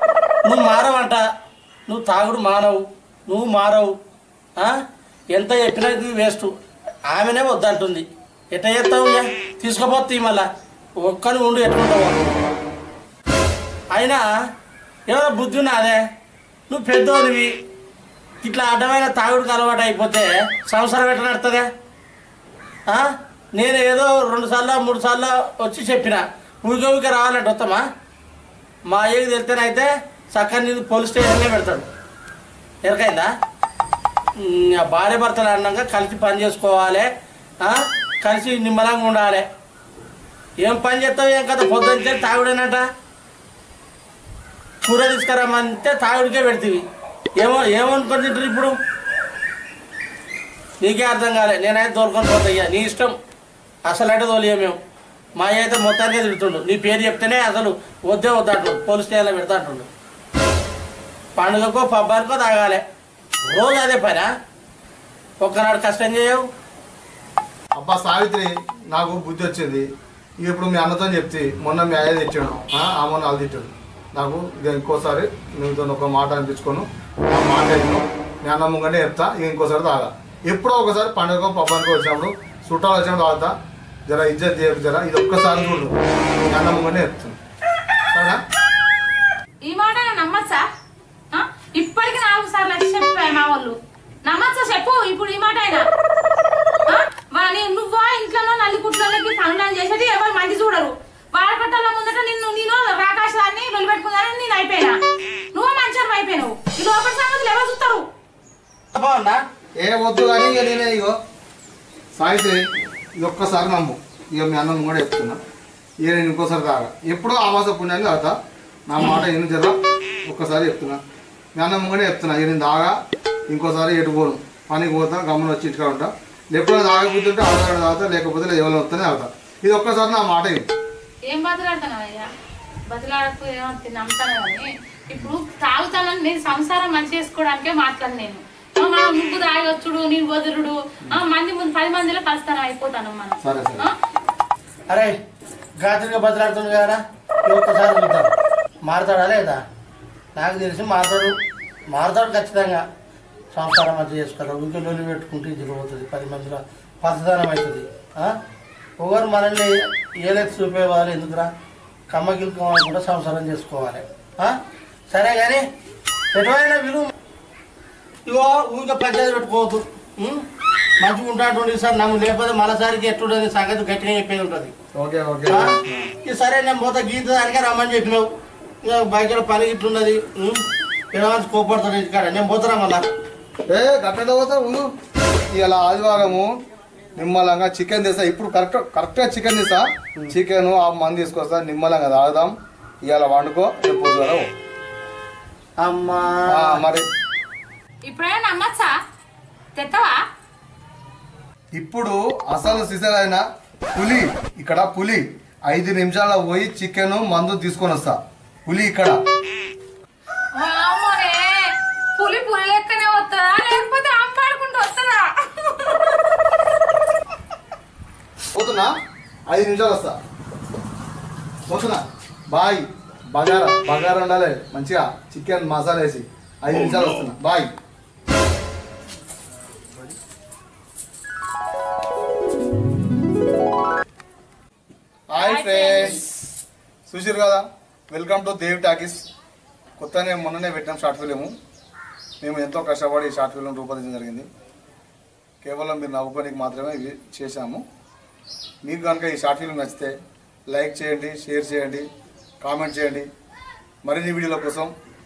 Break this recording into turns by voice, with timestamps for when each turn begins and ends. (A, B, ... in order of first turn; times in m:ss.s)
0:00.4-0:01.2 A
0:01.9-0:03.9 A
0:05.3-0:06.5 A
0:07.1-0:10.5 A
0:11.0-0:12.2 A
0:13.9-0:14.2 A
0:15.1-0:16.0 A
0:16.7-0:17.5 A
0:18.4-0:21.7 A
0:22.9-0:27.8 A
0:28.9-0:31.9 A
0:32.8-0:33.3 A
0:34.4-0:37.1 A
0:37.6-0:39.4 A
0:40.6-0:42.8 A
0:44.8-0:46.8 A
0:47.4-0:48.7 A
0:50.8-0:53.1 A
0:53.9-0:54.8 A
0:55.4-0:59.9 A
1:01.4-1:02.8 A
1:03.5-1:04.3 A
1:05.4-1:06.4 A
1:07.8-1:09.9 B
1:10.4-1:23.5 B
1:24.1-1:25.9 B
1:26.5-1:27.4 B
1:28.1-1:28.4 B
1:29.6-1:30.7 C
1:31.3-1:35.8 C
1:36.9-1:45.0 C
1:45.5-1:48.0 C
1:49.0-1:49.4 A
1:49.8-1:51.2 B
1:52.2-1:52.6 B
1:53.2-1:55.4 B
1:56.0-1:58.4 B
1:58.9-2:01.0 B
2:01.6-2:02.9 B
2:03.5-2:10.7 B
2:11.3-2:12.3 C
2:12.9-2:23.9 C
2:23.4-2:23.9 B
2:24.9-2:25.2 A
2:25.8-2:28.3 A
2:28.8-2:29.6 A
2:30.4-2:31.3 A
2:31.9-2:32.8 A
2:33.5-2:38.4 A
2:39.0-2:41.5 A
2:42.1-2:44.6 A
2:45.1-2:45.6 A
2:46.3-2:47.1 A
2:48.3-2:50.4 A
2:51.0-2:54.7 A
2:55.0-2:56.1 B
2:55.5-2:58.3 A
2:58.8-3:00.6 A
3:01.1-3:03.1 A
3:03.7-3:04.9 B
3:05.5-3:06.5 B
3:07.2-3:12.5 B
3:13.0-3:14.5 B
3:15.8-3:16.8 A
3:16.5-3:17.1 B
3:18.1-3:18.9 C
3:19.8-3:20.2 C
3:21.8-3:23.4 B
3:24.0-3:29.2 B
3:30.6-3:36.2 C
3:38.5-3:38.9 B
3:39.5-3:40.2 B
3:41.7-3:47.7 B
3:55.3-3:56.2 B
3:55.4-3:56.2 C
3:57.1-3:59.2 B
4:00.0-4:01.5 B
4:02.4-4:04.5 B
4:05.6-4:07.8 B
4:08.8-4:10.1 B
4:10.7-4:12.1 B
4:12.6-4:13.3 B
4:14.0-4:14.9 B